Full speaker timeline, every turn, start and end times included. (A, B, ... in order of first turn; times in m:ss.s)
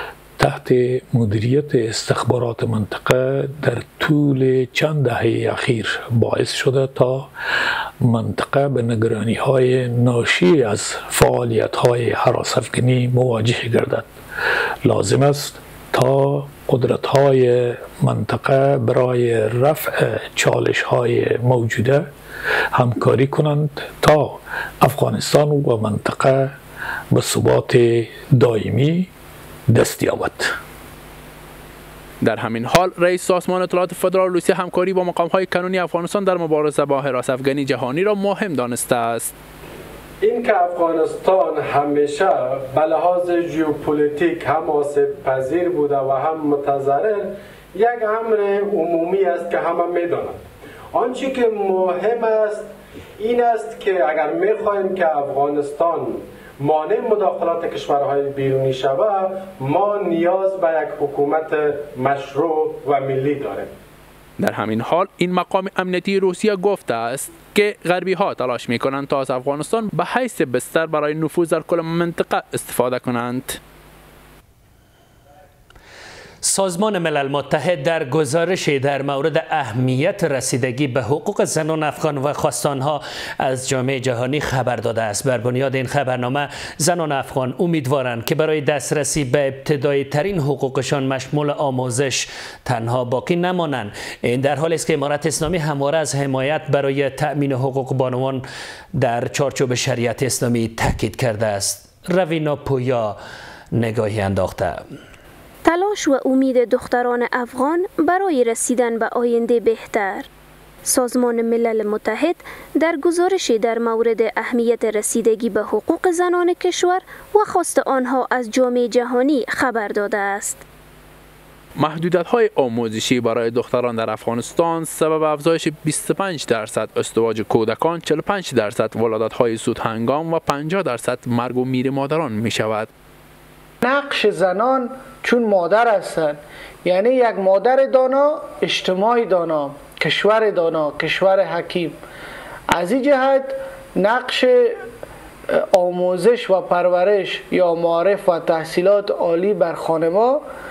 0:00.4-0:07.3 A
0:08.0-0:14.1 A
0:14.8-0:22.1 A
0:22.7-0:26.6 A
0:27.1-0:29.1 A
0:29.7-0:30.5 A
0:32.2-0:39.3 B
0:40.2-0:50.4 C
0:50.9-1:03.7 C
1:04.4-1:13.6 B
1:16.4-1:38.4 D
1:39.0-1:43.2 D
1:43.7-1:44.8 D
1:45.6-1:50.3 E
1:50.9-2:00.6 E
2:01.8-2:12.9 B
2:13.8-2:22.0 F
2:22.7-2:24.8 F
2:25.7-2:30.4 F